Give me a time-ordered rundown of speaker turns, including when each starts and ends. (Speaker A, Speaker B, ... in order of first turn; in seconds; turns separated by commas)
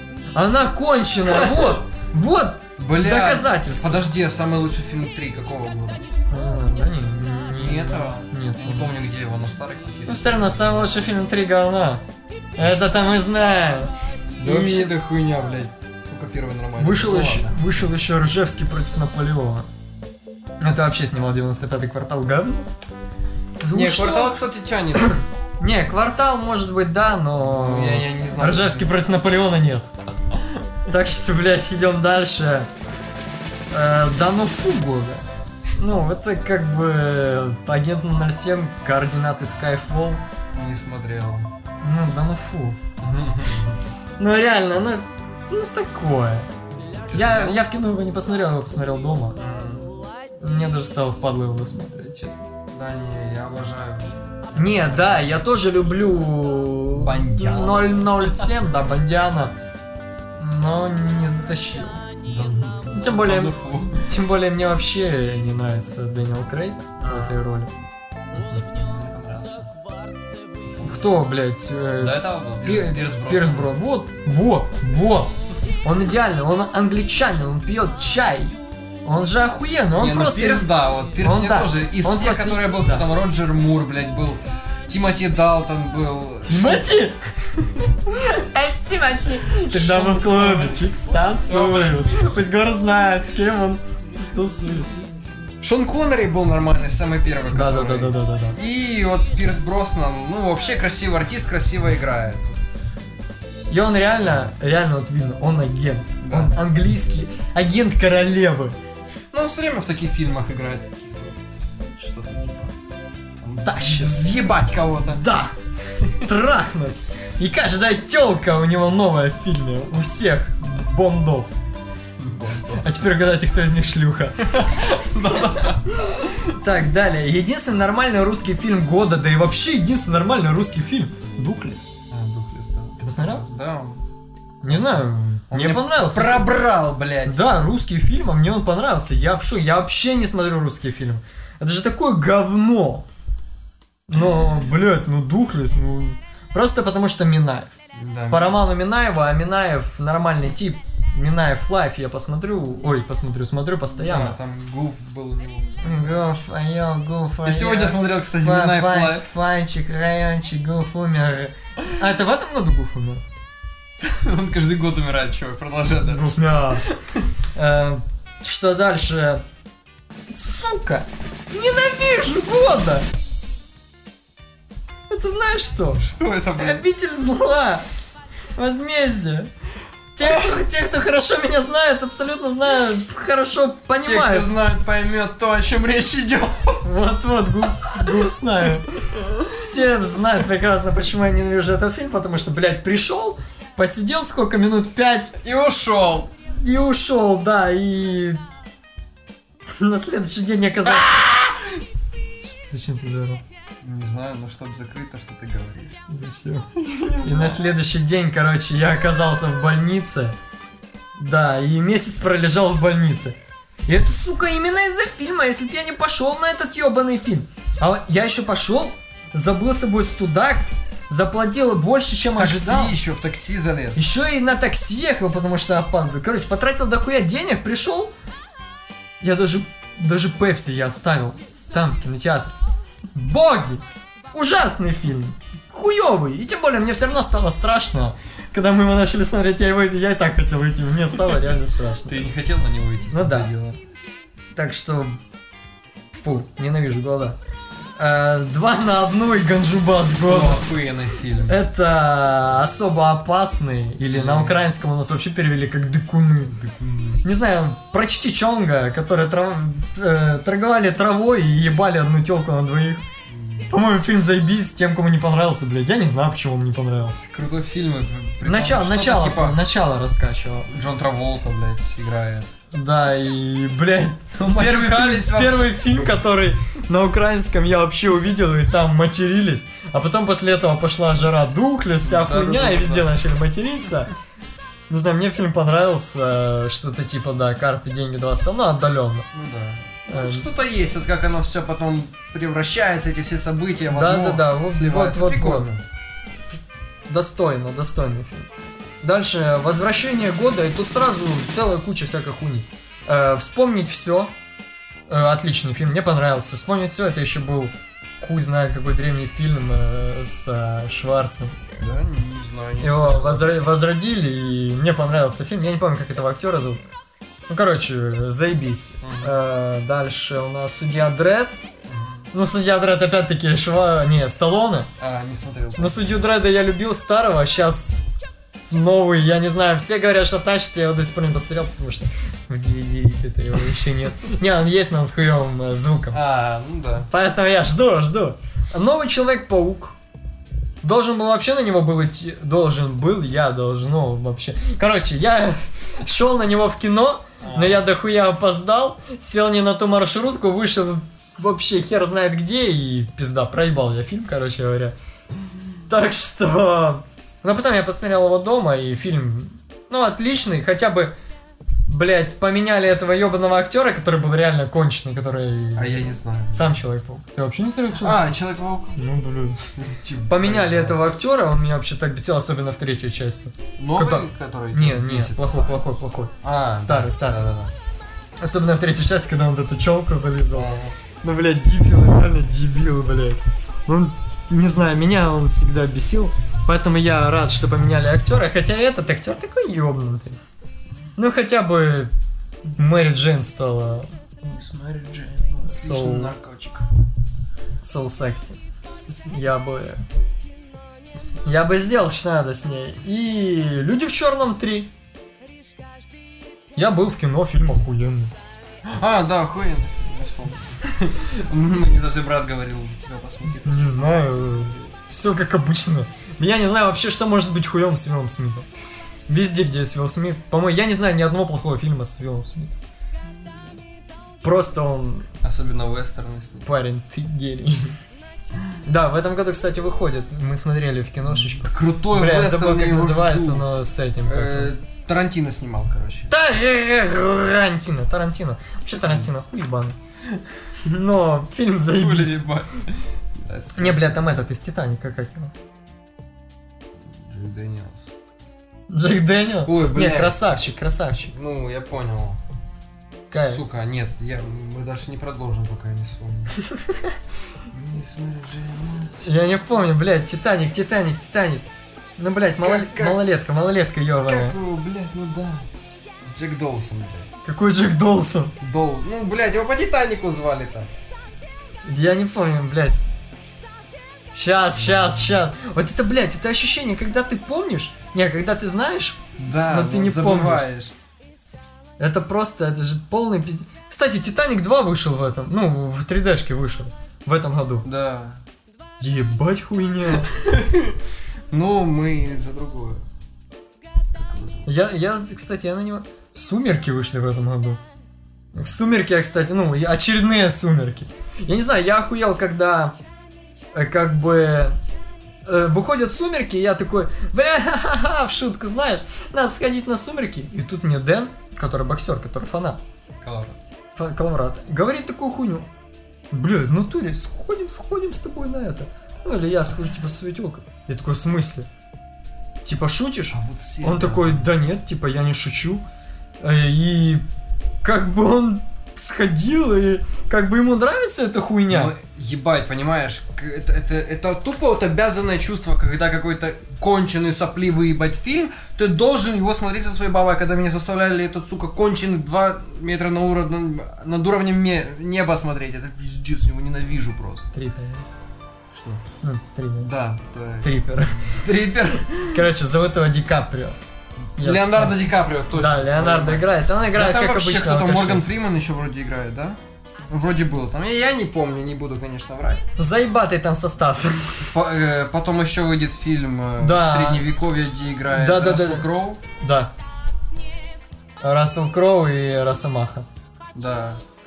Speaker A: 0.3-4.1, Speaker B: 1.3-1.6, Speaker B: 2.8-6.1, Speaker A: 6.3-8.9, Speaker B: 7.5-10.9, Speaker A: 10.1-12.0, Speaker A: 12.6-14.9, Speaker B: 14.4-17.9, Speaker A: 16.8-19.7, Speaker A: 20.6-22.7, Speaker A: 23.6-24.4, Speaker B: 23.7-25.2, Speaker A: 24.9-29.9, Speaker B: 27.4-29.0, Speaker A: 30.9-32.7, Speaker A: 33.7-40.2, Speaker B: 40.5-41.5, Speaker A: 41.8-42.8, Speaker B: 43.0-43.8, Speaker A: 44.2-46.5, Speaker B: 46.8-47.6, Speaker A: 47.1-49.4, Speaker B: 49.4-49.9, Speaker A: 50.4-52.5, Speaker B: 52.7-55.4, Speaker A: 54.5-59.5, Speaker B: 57.0-58.5, Speaker A: 60.4-62.1, Speaker B: 62.2-64.0, Speaker A: 62.9-67.7, Speaker B: 67.0-67.4, Speaker B: 68.3-69.7, Speaker A: 70.8-75.3, Speaker B: 72.0-73.8, Speaker A: 75.8-80.7, Speaker B: 79.9-86.9, Speaker A: 81.2-83.1, Speaker A: 86.4-94.9, Speaker B: 89.7-92.4, Speaker B: 95.6-102.7, Speaker A: 97.5-98.6, Speaker A: 103.7-108.8, Speaker B: 106.2-106.6, Speaker B: 109.3-112.7, Speaker B: 113.4-115.3, Speaker A: 113.6-115.5, Speaker A: 116.1-121.5, Speaker B: 122.2-122.9, Speaker A: 122.8-124.5, Speaker B: 124.5-126.3, Speaker A: 125.5-131.8, Speaker B: 132.1-134.0, Speaker A: 133.0-133.4, Speaker A: 134.6-136.5, Speaker B: 134.6-137.4, Speaker A: 137.2-143.0, Speaker A: 144.1-147.7, Speaker B: 147.9-148.6, Speaker A: 148.3-154.4, Speaker B: 153.9-156.0, Speaker A: 155.8-163.2, Speaker B: 157.4-159.3, Speaker B: 164.0-166.3, Speaker A: 166.0-166.8, Speaker B: 166.8-167.3, Speaker A: 167.5-169.4, Speaker A: 170.3-173.1, Speaker A: 175.1-176.0, Speaker B: 176.0-176.8, Speaker A: 176.6-177.9, Speaker A: 178.6-179.5, Speaker A: 180.1-184.5, Speaker B: 184.0-186.8, Speaker A: 186.8-195.3, Speaker B: 195.4-196.3, Speaker A: 196.5-198.4, Speaker A: 199.8-201.3, Speaker B: 200.9-201.7, Speaker A: 202.4-203.4, Speaker B: 203.8-206.0, Speaker A: 206.1-206.7, Speaker B: 206.7-207.7, Speaker A: 207.2-210.3, Speaker A: 211.2-213.3, Speaker A: 213.9-223.0, Speaker B: 222.3-224.1, Speaker A: 223.9-228.1, Speaker A: 229.2-232.6, Speaker A: 233.1-242.2, Speaker B: 242.1-243.8, Speaker A: 243.1-243.5, Speaker A: 244.5-245.2, Speaker A: 246.1-247.4, Speaker A: 248.0-250.6, Speaker B: 250.2-251.6, Speaker A: 251.5-256.6, Speaker B: 254.1-254.7, Speaker B: 256.5-257.2, Speaker A: 257.2-263.0, Speaker B: 263.3-263.8, Speaker A: 263.7-267.1, Speaker B: 267.0-269.6, Speaker A: 268.4-270.7, Speaker B: 270.7-272.5, Speaker A: 272.7-284.1, Speaker B: 274.4-275.7, Speaker B: 282.0-283.1, Speaker A: 284.9-289.3, Speaker B: 289.3-295.8, Speaker A: 290.1-290.5, Speaker A: 293.9-295.7, Speaker A: 297.1-298.5, Speaker A: 299.0-304.3, Speaker A: 305.1-311.6, Speaker B: 311.8-313.6, Speaker A: 312.8-316.8, Speaker A: 317.5-321.6, Speaker B: 319.0-319.3, Speaker B: 321.9-322.3, Speaker A: 322.3-324.9, Speaker B: 325.0-326.2, Speaker A: 325.8-328.0, Speaker A: 328.7-336.2, Speaker B: 336.1-337.1, Speaker A: 337.1-339.9, Speaker A: 340.8-354.9, Speaker B: 347.4-347.8, Speaker A: 355.9-361.1, Speaker A: 361.9-368.3, Speaker B: 365.8-366.7, Speaker B: 368.0-369.0, Speaker A: 368.9-369.7, Speaker B: 369.8-371.0, Speaker A: 370.3-377.4, Speaker B: 373.8-375.8, Speaker B: 376.4-377.7, Speaker A: 378.4-390.4, Speaker B: 380.5-380.9, Speaker A: 391.2-392.1, Speaker A: 392.7-394.1, Speaker B: 394.4-396.9, Speaker A: 395.6-396.3, Speaker A: 397.8-398.6, Speaker A: 399.3-400.0, Speaker A: 401.4-404.9, Speaker A: 406.8-408.3, Speaker B: 408.8-414.9, Speaker A: 413.6-418.7, Speaker A: 419.3-422.8, Speaker A: 424.4-425.3, Speaker B: 425.4-426.7, Speaker A: 426.6-428.0, Speaker A: 428.8-434.7, Speaker B: 431.2-433.7, Speaker B: 434.2-436.3, Speaker A: 436.3-440.0, Speaker A: 440.8-442.4, Speaker B: 441.9-444.1, Speaker A: 443.8-445.5, Speaker B: 447.0-448.0, Speaker A: 448.9-451.3, Speaker B: 449.6-450.4, Speaker B: 451.3-452.4, Speaker A: 453.3-453.6, Speaker B: 453.3-456.5, Speaker B: 457.7-459.6, Speaker A: 459.2-461.6, Speaker A: 462.2-464.6, Speaker B: 462.6-463.2, Speaker B: 464.2-465.7, Speaker B: 466.2-467.3, Speaker A: 467.4-468.5, Speaker B: 468.6-470.9, Speaker A: 471.8-473.0, Speaker A: 474.3-480.6, Speaker B: 479.4-480.9, Speaker A: 482.0-487.9, Speaker B: 487.8-488.4, Speaker A: 489.0-490.3, Speaker B: 490.2-491.0, Speaker B: 491.5-493.0, Speaker B: 494.1-494.7, Speaker A: 494.6-497.8, Speaker A: 498.5-502.9, Speaker A: 503.7-504.8, Speaker A: 505.4-512.8, Speaker B: 513.2-513.6, Speaker A: 514.0-515.7, Speaker A: 516.3-521.7, Speaker A: 522.6-525.8, Speaker B: 523.3-524.5, Speaker A: 526.4-527.2, Speaker A: 527.8-531.9, Speaker B: 531.7-547.5, Speaker A: 547.5-548.0, Speaker B: 548.7-549.0, Speaker A: 549.2-549.9, Speaker B: 549.8-552.4, Speaker A: 550.6-551.4, Speaker A: 552.3-553.8, Speaker A: 554.4-555.0, Speaker B: 554.4-562.6, Speaker A: 555.5-558.2, Speaker A: 562.8-564.5, Speaker B: 564.5-569.2, Speaker A: 566.6-567.3, Speaker A: 568.1-568.9, Speaker A: 569.4-569.7, Speaker A: 571.2-573.0, Speaker B: 573.5-574.0